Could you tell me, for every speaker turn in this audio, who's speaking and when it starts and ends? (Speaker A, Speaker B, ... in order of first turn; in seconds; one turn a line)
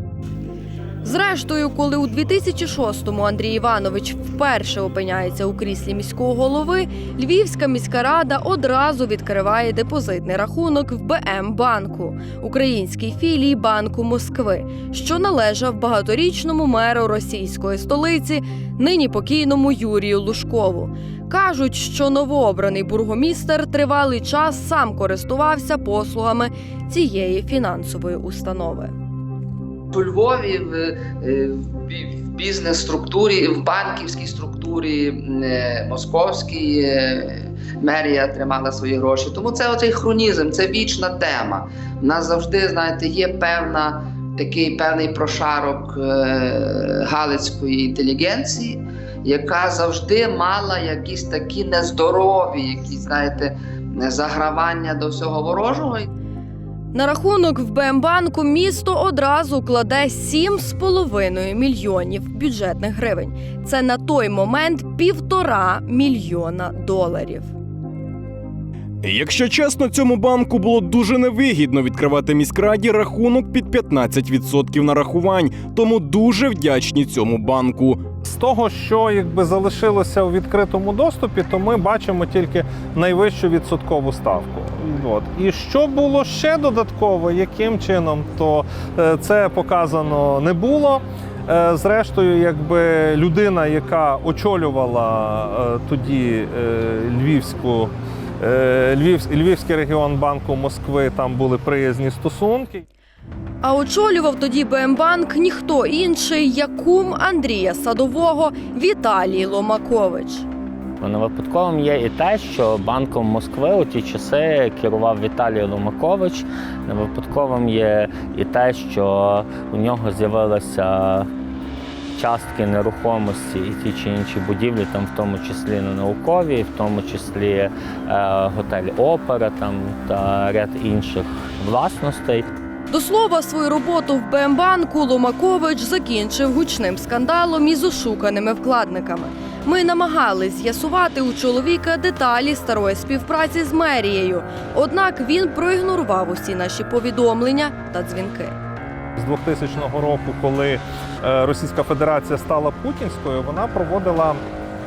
Speaker A: 1.0-28.9
Speaker B: 29.9-56.0
Speaker A: 56.9-67.5
Speaker C: 69.0-78.1
Speaker D: 78.2-102.8
Speaker A: 103.6-110.5
Speaker E: 111.0-121.3
Speaker E: 122.2-132.5
Speaker A: 132.9-148.6
Speaker D: 149.2-154.4